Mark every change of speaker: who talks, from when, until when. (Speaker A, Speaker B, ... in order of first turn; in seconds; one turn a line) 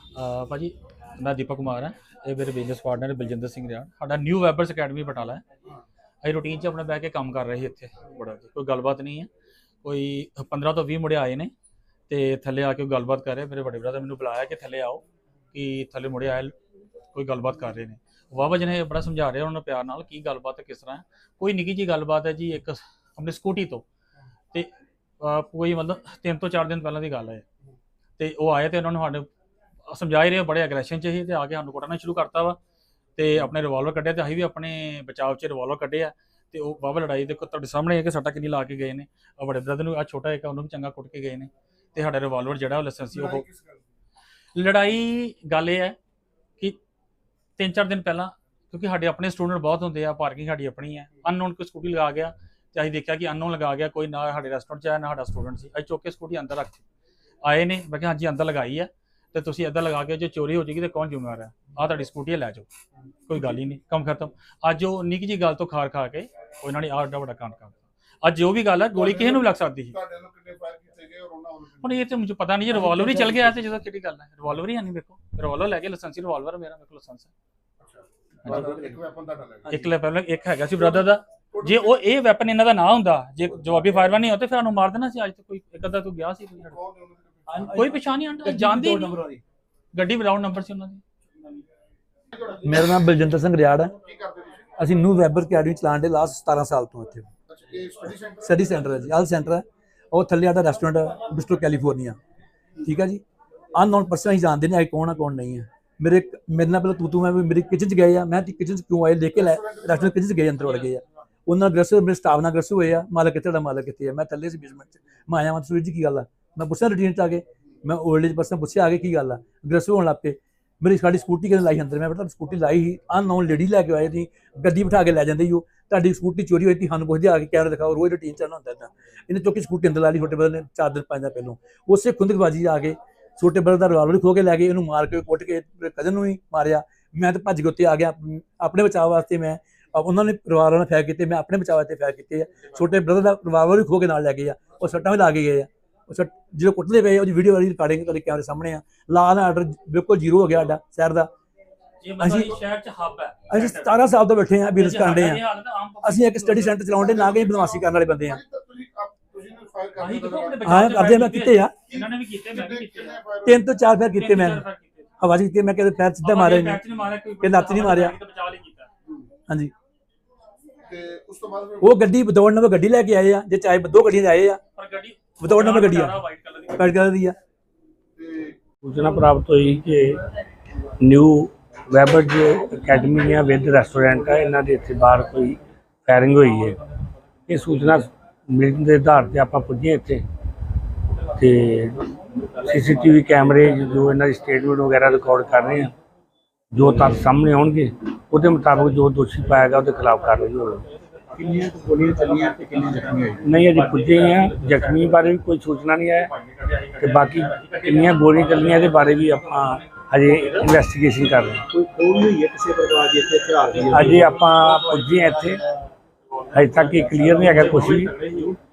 Speaker A: 0.2-5.4
Speaker A: 6.2-9.3
Speaker A: 9.8-11.5
Speaker A: 12.1-16.6
Speaker A: 17.1-23.8
Speaker A: 25.2-27.4
Speaker A: 28.2-29.3
Speaker A: 29.9-32.6
Speaker A: 33.2-43.5
Speaker B: 43.1-43.8
Speaker A: 44.6-46.0
Speaker A: 47.6-56.8
Speaker A: 57.4-62.7
Speaker A: 63.3-70.0
Speaker B: 68.9-72.0
Speaker A: 71.8-77.3
Speaker C: 72.7-73.5
Speaker B: 77.8-79.7
Speaker A: 78.5-78.9
Speaker C: 78.5-78.8
Speaker C: 79.6-79.9
Speaker A: 79.7-86.8
Speaker B: 80.8-82.0
Speaker B: 86.7-87.7
Speaker C: 87.5-89.4
Speaker A: 87.7-89.1
Speaker A: 89.9-91.0
Speaker C: 92.6-93.9
Speaker B: 94.0-94.7
Speaker C: 94.8-97.3
Speaker B: 97.5-98.8
Speaker C: 98.4-102.2
Speaker C: 102.8-103.2
Speaker C: 103.8-151.3
Speaker B: 109.3-110.1
Speaker A: 152.0-153.9
Speaker C: 152.2-152.5
Speaker C: 153.5-155.4
Speaker A: 154.8-156.8
Speaker C: 156.0-158.4
Speaker B: 156.9-160.7
Speaker A: 160.0-163.2
Speaker C: 160.6-161.7
Speaker B: 161.9-163.6
Speaker C: 163.4-164.6
Speaker A: 164.1-165.1
Speaker C: 165.2-166.8
Speaker A: 166.2-168.9
Speaker C: 167.4-168.1
Speaker C: 169.5-169.7
Speaker B: 170.8-171.9
Speaker C: 171.8-174.6
Speaker A: 174.8-177.0
Speaker C: 175.4-176.2
Speaker C: 176.8-177.4
Speaker B: 178.2-178.6
Speaker D: 178.8-180.2
Speaker D: 181.0-186.8
Speaker D: 187.5-190.3
Speaker D: 191.4-195.9
Speaker D: 196.7-200.8
Speaker E: 201.4-203.4
Speaker A: 201.6-205.1
Speaker D: 203.4-206.3
Speaker A: 206.3-209.4
Speaker D: 207.0-211.7
Speaker E: 211.7-214.2
Speaker A: 213.8-214.1
Speaker D: 213.9-215.6
Speaker A: 216.4-218.6
Speaker D: 216.5-218.1